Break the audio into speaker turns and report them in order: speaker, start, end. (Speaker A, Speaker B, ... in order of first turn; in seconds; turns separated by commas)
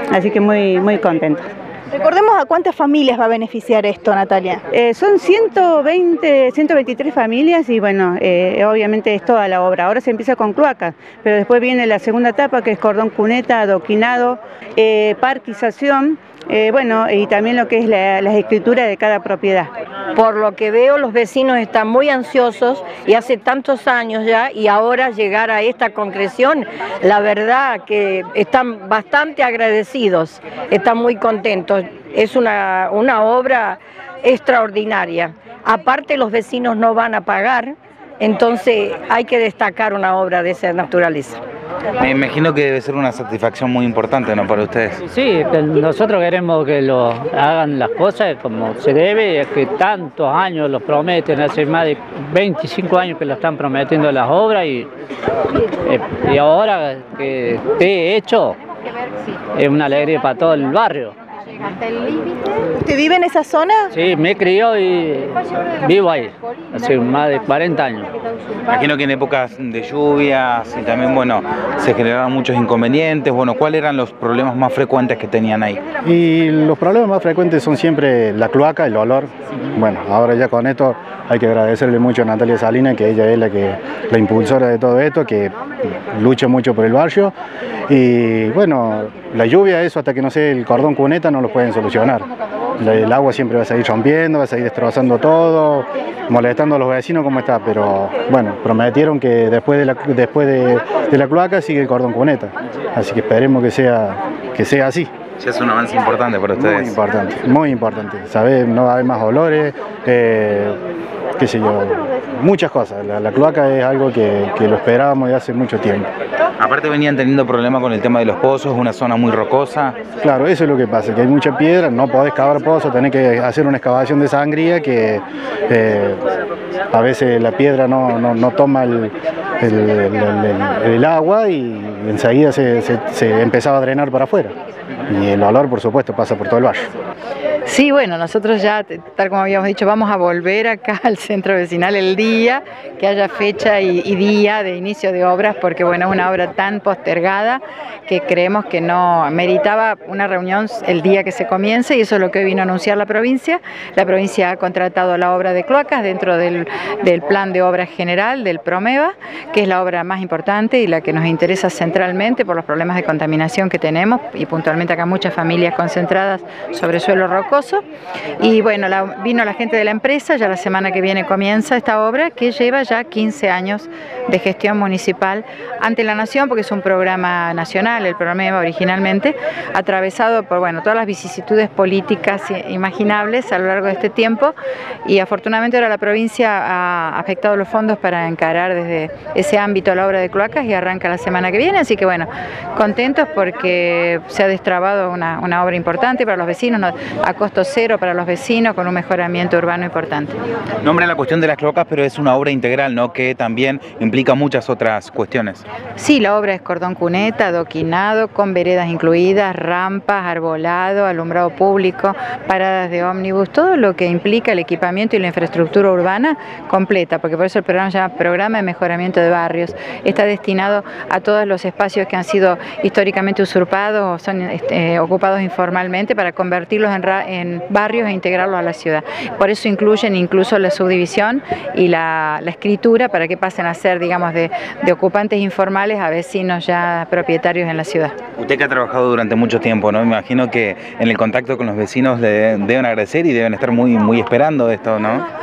Speaker A: 0.2-1.4, Speaker B: 2.0-4.6, Speaker A: 5.0-16.0, Speaker A: 16.6-19.6, Speaker C: 20.1-41.4, Speaker D: 42.0-45.0, Speaker E: 45.1-54.9, Speaker E: 55.9-58.6, Speaker E: 59.5-61.1, Speaker B: 62.8-63.8, Speaker E: 63.9-68.1, Speaker D: 68.7-75.8, Speaker F: 76.0-87.3, Speaker F: 87.9-92.2, Speaker F: 92.8-105.1, Speaker D: 105.4-107.0, Speaker F: 106.6-110.8, Speaker F: 111.4-116.1, Speaker D: 116.6-120.0, Speaker F: 120.2-126.2, Speaker F: 126.9-134.5, Speaker F: 135.1-136.9, Speaker G: 137.6-167.8, Speaker G: 168.4-184.5, Speaker G: 185.0-200.3, Speaker D: 200.8-205.6, Speaker G: 206.0-238.1, Speaker D: 238.4-245.2